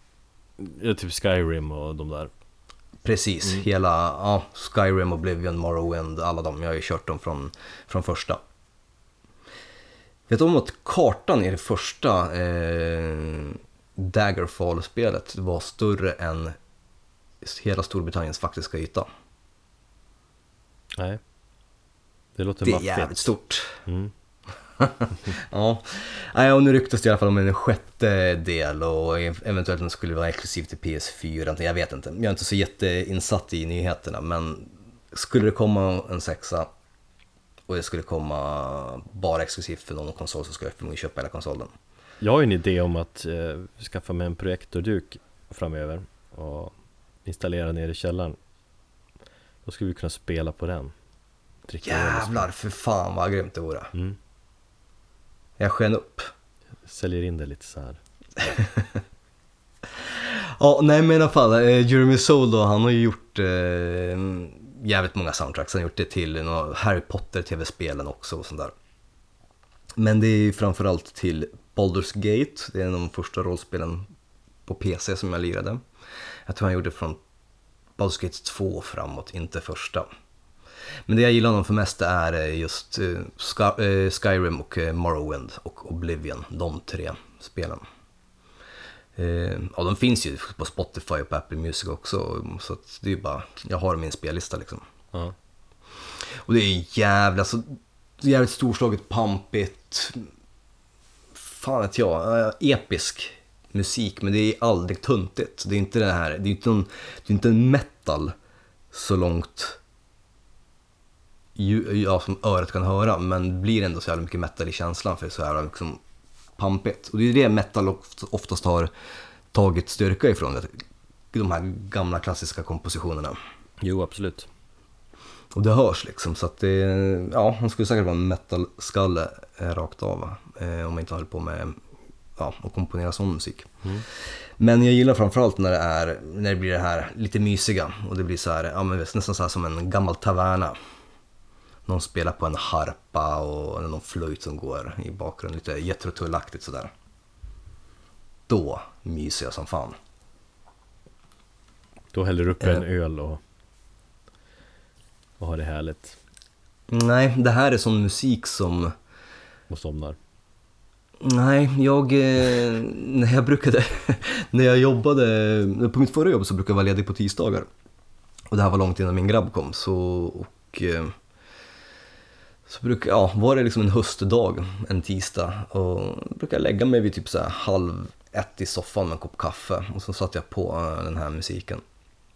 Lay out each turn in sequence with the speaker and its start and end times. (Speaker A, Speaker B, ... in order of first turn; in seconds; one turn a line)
Speaker A: 0.6-2.3
Speaker B: 3.0-8.4
Speaker B: 10.3-16.6
Speaker B: 17.4-19.1
Speaker A: 20.9-21.2
Speaker A: 22.4-23.3
Speaker B: 22.6-23.8
Speaker A: 23.9-24.1
Speaker B: 24.8-36.7
Speaker B: 37.7-41.7
Speaker A: 42.2-48.4
Speaker A: 49.6-50.9
Speaker A: 51.7-52.5
Speaker B: 51.8-53.9
Speaker B: 55.6-56.3
Speaker A: 56.9-58.0
Speaker B: 58.4-59.0
Speaker B: 60.0-68.7
Speaker B: 70.0-74.1
Speaker B: 74.7-75.8
Speaker B: 76.5-77.2
Speaker B: 78.0-80.1
Speaker B: 81.1-87.8
Speaker B: 89.2-94.8
Speaker B: 96.2-100.3
Speaker B: 101.3-108.3
Speaker B: 108.9-109.8
Speaker B: 111.5-116.0
Speaker B: 116.6-118.9
Speaker B: 119.5-120.8
Speaker B: 121.3-123.4
Speaker A: 123.8-124.5
Speaker B: 125.5-131.8
Speaker B: 132.3-140.8
Speaker B: 141.9-146.9
Speaker B: 148.5-149.9
Speaker A: 152.1-153.4
Speaker A: 155.4-156.2
Speaker B: 156.9-158.9
Speaker A: 159.7-160.2
Speaker B: 161.2-167.7
Speaker B: 168.5-171.1
Speaker B: 172.7-181.8